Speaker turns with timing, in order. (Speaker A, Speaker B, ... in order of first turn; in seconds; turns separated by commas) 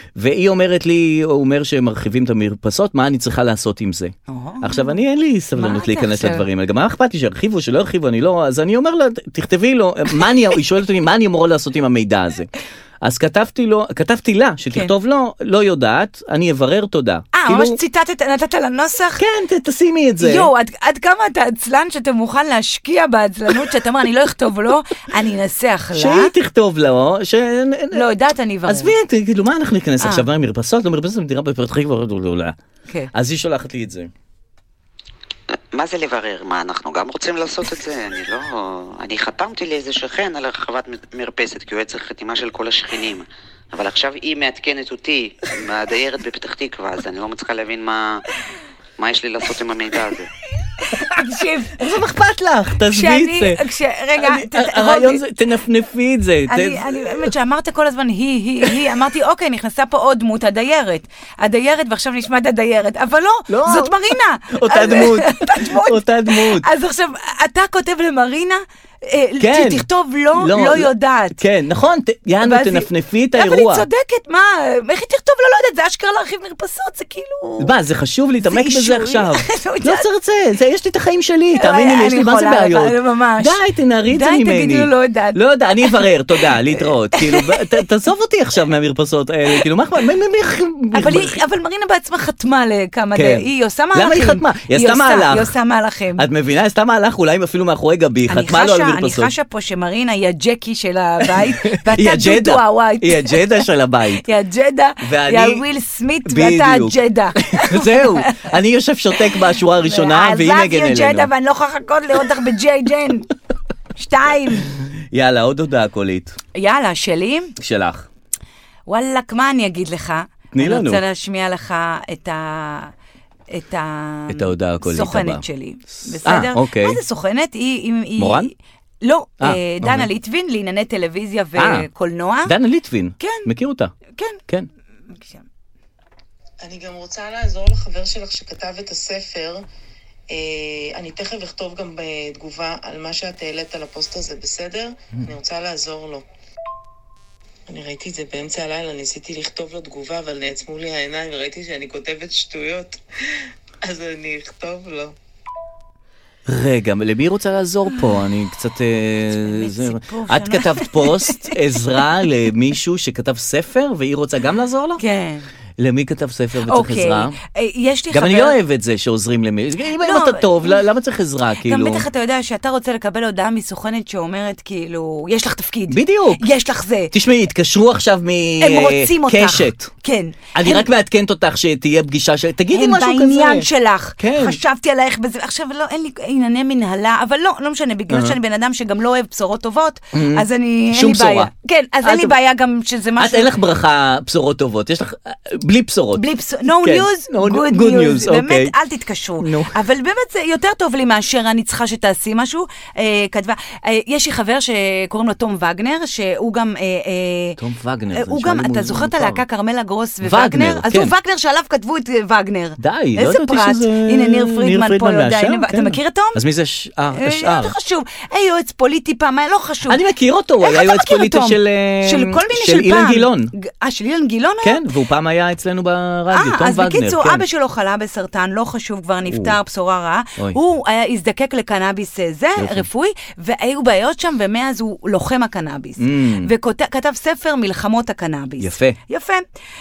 Speaker A: 0.1-12.5, Speaker B: 4.3-4.9, Speaker B: 5.5-6.4, Speaker A: 13.0-17.8, Speaker B: 17.3-19.2, Speaker A: 19.2-20.5, Speaker B: 20.2-26.3, Speaker A: 25.9-28.1, Speaker B: 27.9-28.9, Speaker A: 28.7-32.5, Speaker B: 30.0-30.2, Speaker A: 33.1-34.1, Speaker C: 35.7-48.2, Speaker C: 49.0-50.3, Speaker B: 50.8-51.8, Speaker A: 51.8-53.6, Speaker B: 52.9-55.2, Speaker A: 54.2-57.3, Speaker B: 56.5-71.4, Speaker A: 63.5-63.9, Speaker A: 64.5-66.7, Speaker A: 69.4-73.9, Speaker B: 72.4-77.8, Speaker A: 77.6-91.4, Speaker B: 78.4-80.1, Speaker B: 81.5-83.6, Speaker B: 84.1-87.8, Speaker B: 90.9-96.2, Speaker A: 93.1-95.5, Speaker A: 96.2-99.3, Speaker B: 98.3-103.6, Speaker A: 101.2-104.2, Speaker B: 104.2-108.5, Speaker A: 105.0-105.6, Speaker A: 106.2-111.3, Speaker B: 109.8-113.3, Speaker B: 114.0-114.7, Speaker A: 115.1-116.4, Speaker B: 116.5-117.5, Speaker A: 117.6-118.1, Speaker B: 118.9-122.9, Speaker A: 120.5-121.0, Speaker B: 123.5-132.5, Speaker A: 124.3-125.4, Speaker A: 126.2-127.0, Speaker A: 128.2-128.5, Speaker A: 129.4-130.1, Speaker A: 131.6-131.9, Speaker A: 132.4-133.9, Speaker B: 133.2-133.5, Speaker B: 134.1-134.4, Speaker B: 135.1-135.4, Speaker D: 136.6-139.6, Speaker D: 140.3-146.2, Speaker D: 147.7-153.0, Speaker D: 153.8-155.1, Speaker A: 156.4-165.0, Speaker B: 159.3-162.0, Speaker B: 165.0-165.4, Speaker A: 165.8-167.3, Speaker B: 166.6-168.6, Speaker A: 168.1-172.1, Speaker B: 170.0-170.8, Speaker B: 171.6-177.1, Speaker A: 175.9-176.4, Speaker A: 177.1-179.9, Speaker B: 178.6-180.9, Speaker A: 180.5-183.7, Speaker B: 182.7-193.5, Speaker A: 184.2-184.6, Speaker A: 188.1-188.4, Speaker A: 190.1-191.5, Speaker A: 192.0-192.3, Speaker A: 193.2-198.7, Speaker B: 196.2-207.6, Speaker A: 199.4-199.7, Speaker A: 207.6-209.4, Speaker B: 208.1-216.4, Speaker A: 210.2-211.1, Speaker A: 212.8-217.7, Speaker B: 217.1-220.0, Speaker A: 219.8-223.5, Speaker B: 220.6-224.9, Speaker A: 224.6-227.4, Speaker B: 226.3-239.4, Speaker A: 229.2-229.6, Speaker A: 232.6-232.8, Speaker A: 236.0-236.5, Speaker A: 238.6-239.0